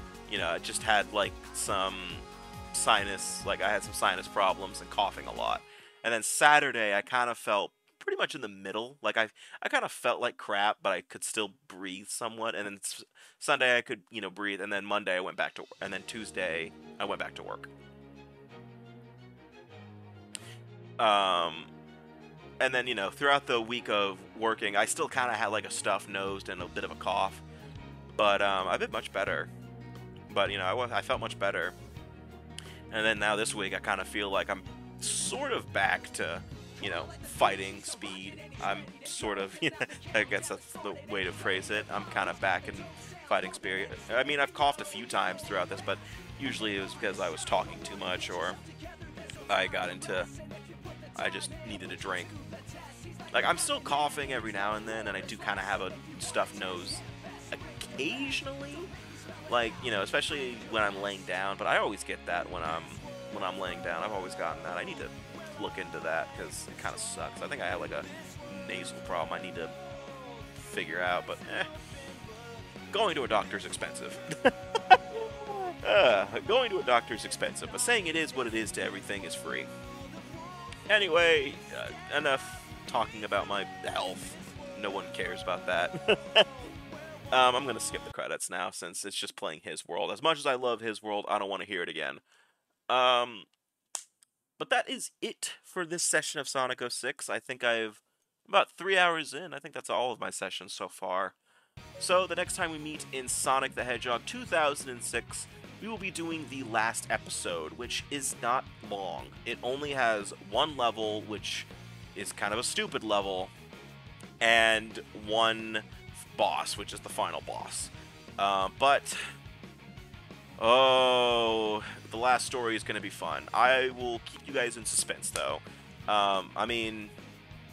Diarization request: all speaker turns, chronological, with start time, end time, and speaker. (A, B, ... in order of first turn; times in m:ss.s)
0:00.3-0:17.7 A
0:21.0-0:21.7 A
0:22.6-0:27.4 A
0:28.2-0:29.5 A
0:30.3-0:31.8 A
0:32.9-0:48.6 A
0:49.5-0:50.3 A
0:51.2-0:52.4 A
0:53.3-0:58.9 A
0:59.5-1:09.8 A
1:10.6-1:11.7 A
1:12.9-1:19.7 A
1:20.9-1:26.5 A
1:27.3-1:32.2 A
1:32.9-1:33.5 A
1:34.6-1:41.4 A
1:42.0-1:53.5 A
1:54.4-1:59.2 A
2:00.6-2:07.1 A